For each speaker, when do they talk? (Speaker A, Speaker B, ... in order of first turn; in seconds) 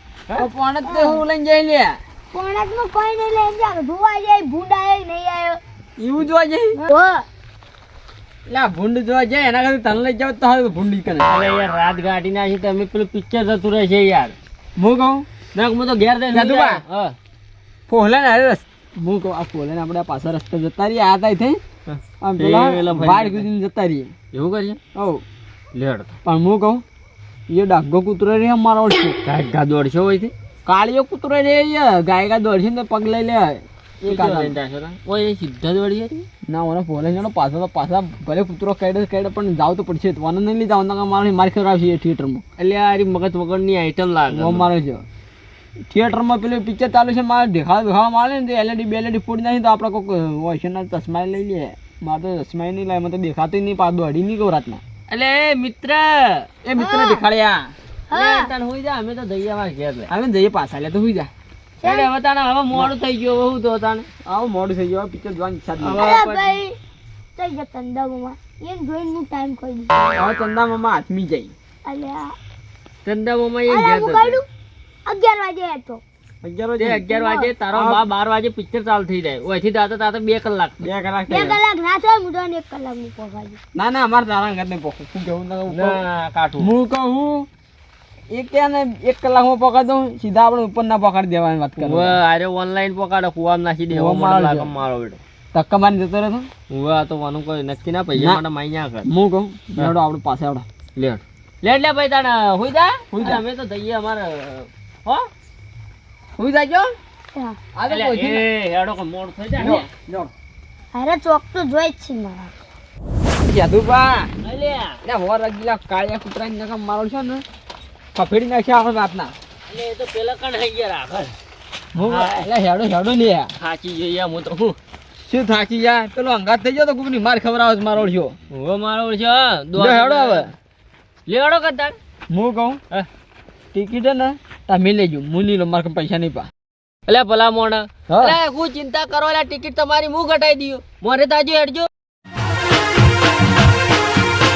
Speaker A: 0.3-2.0, 6.0-6.8, 8.5-11.3, 14.8-15.3, 16.3-16.8, 17.9-21.6, 22.2-24.1, 24.9-25.2, 26.2-26.8, 27.5-29.2, 30.6-34.5, 36.5-42.4, 44.3-45.0, 45.9-54.8, 56.6-57.7, 60.1-61.3, 64.2-66.1, 70.2-71.5, 76.4-78.0, 80.8-81.6, 83.7-86.0, 86.6-87.5, 88.3-92.2, 93.9-94.7, 95.5-96.5, 98.1-98.4, 99.0-100.7, 103.1-103.4, 106.4-106.9, 107.7-108.4, 109.6-110.3, 113.4-114.3, 115.0-117.4, 118.1-119.3, 121.9-123.5, 125.2-128.3, 129.7-130.5, 132.3-132.8, 133.7-136.5, 138.1-138.3
Speaker B: 0.8-1.2, 2.3-5.6, 6.8-7.2, 56.8-57.2, 58.1-58.5, 61.8-62.1, 66.0-66.7, 67.3-70.2, 71.8-72.3, 73.7-74.4, 75.0-76.0, 77.1-77.5, 81.3-83.6, 110.9-112.5
Speaker C: 11.2-14.3, 15.5-17.1, 21.9-23.5, 24.3-24.8, 25.7-26.1, 29.2-30.3, 34.0-36.2, 42.6-44.7, 55.1-56.5, 58.1-60.1, 61.8-64.0, 65.8-66.6, 73.0-74.4, 76.8-80.9, 85.7-86.7, 91.8-95.2, 96.7-99.1, 101.0-105.3, 107.9-109.9, 114.4-115.0, 119.7-121.3, 122.0-122.5, 123.6-124.8, 128.5-130.5, 131.3-131.9, 137.1-141.9